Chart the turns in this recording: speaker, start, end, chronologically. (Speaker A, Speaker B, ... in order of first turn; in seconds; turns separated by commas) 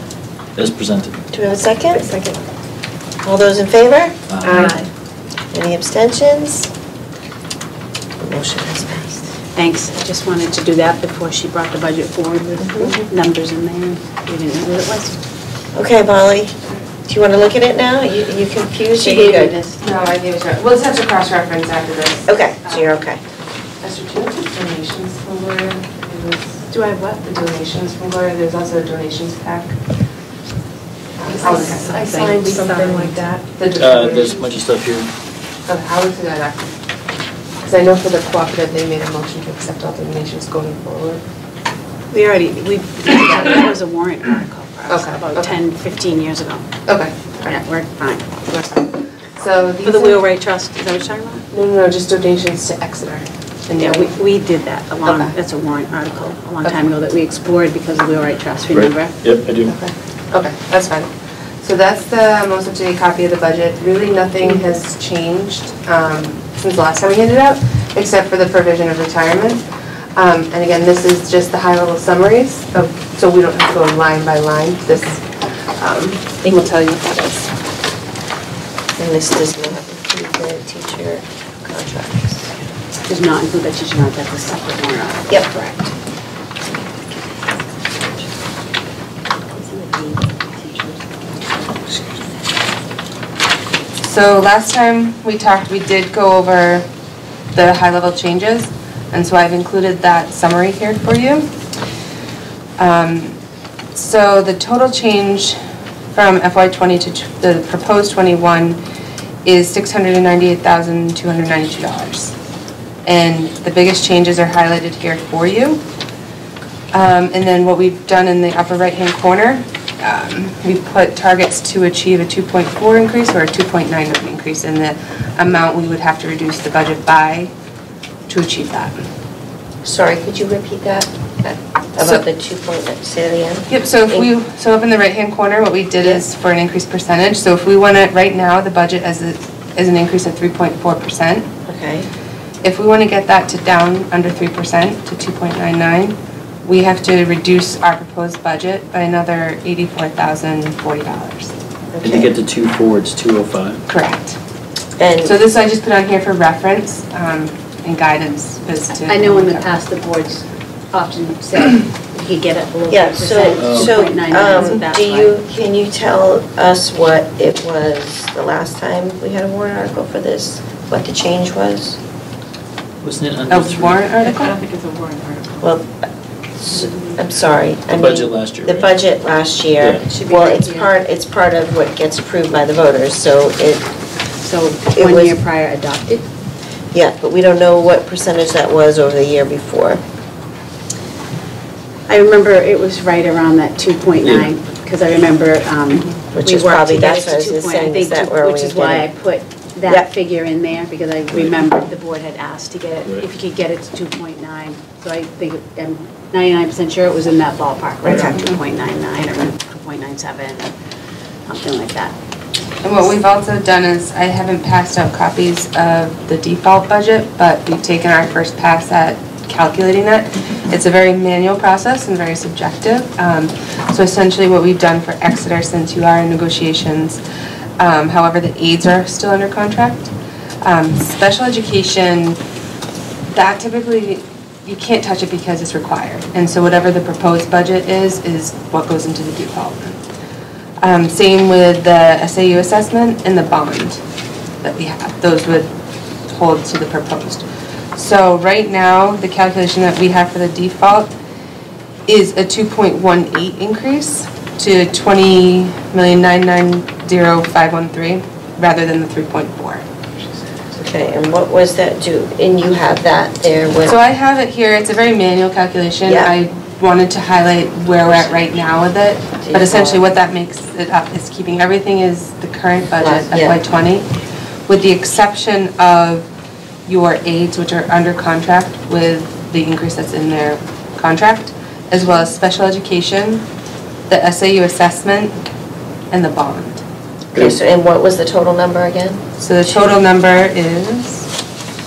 Speaker A: 0.6-1.1, Speaker B: 1.3-2.2, Speaker B: 3.2-4.2, Speaker A: 4.3-4.7, Speaker C: 4.5-4.7, Speaker D: 4.5-4.8, Speaker B: 5.5-6.7, Speaker B: 8.2-9.3, Speaker D: 9.5-15.2, Speaker B: 12.6-12.9, Speaker B: 15.7-19.6, Speaker D: 19.0-19.7, Speaker C: 19.8-23.0, Speaker B: 22.3-23.2, Speaker C: 23.8-29.8, Speaker C: 31.2-34.5, Speaker E: 31.4-33.4, Speaker A: 33.7-35.1, Speaker C: 35.7-36.8, Speaker C: 37.6-41.2, Speaker D: 42.1-46.7, Speaker C: 44.9-45.6, Speaker C: 46.9-47.5, Speaker D: 47.4-48.9, Speaker C: 49.4-50.2, Speaker D: 49.8-51.4, Speaker C: 51.5-54.1, Speaker D: 53.8-59.2, Speaker C: 55.0-55.3, Speaker A: 58.7-59.8, Speaker C: 59.7-61.1, Speaker C: 61.6-69.6, Speaker C: 70.1-75.2, Speaker C: 75.8-77.5, Speaker B: 79.0-82.5, Speaker D: 83.1-85.9, Speaker B: 86.6-87.5, Speaker B: 89.5-91.0, Speaker B: 91.5-92.3, Speaker C: 94.0-96.9, Speaker C: 97.5-101.5, Speaker C: 102.8-103.4, Speaker C: 103.9-105.6, Speaker C: 106.1-108.8, Speaker C: 109.4-112.3, Speaker C: 113.0-115.8, Speaker C: 116.9-127.5, Speaker C: 128.3-129.0, Speaker B: 129.8-134.3, Speaker C: 133.7-141.5, Speaker B: 141.7-142.1, Speaker C: 142.6-151.5, Speaker B: 151.9-152.3, Speaker A: 152.0-153.8, Speaker C: 153.9-154.4, Speaker B: 155.0-155.3, Speaker C: 155.2-159.7, Speaker D: 159.0-165.3, Speaker B: 162.9-172.0, Speaker A: 163.6-163.9, Speaker A: 173.0-174.1, Speaker C: 173.5-174.6, Speaker E: 174.2-175.6, Speaker B: 175.6-183.9, Speaker A: 177.9-178.9, Speaker A: 179.8-180.0, Speaker D: 180.1-180.9, Speaker D: 184.4-186.2, Speaker B: 184.9-185.4, Speaker B: 186.9-190.0, Speaker D: 192.1-210.7, Speaker A: 194.2-194.5, Speaker B: 196.3-199.1, Speaker B: 199.8-200.1, Speaker B: 208.0-208.5, Speaker D: 211.5-212.1, Speaker C: 212.8-227.2, Speaker C: 227.8-232.4, Speaker C: 233.3-240.0, Speaker C: 240.8-244.0, Speaker C: 244.6-245.7, Speaker C: 246.3-251.1, Speaker C: 252.1-259.8, Speaker B: 260.8-263.9, Speaker C: 263.9-274.1, Speaker B: 266.0-266.3, Speaker B: 269.4-270.1, Speaker B: 273.0-273.6, Speaker C: 274.7-276.3, Speaker C: 276.9-283.4, Speaker C: 284.1-285.4, Speaker C: 286.1-286.8, Speaker B: 287.3-289.2, Speaker C: 289.4-291.3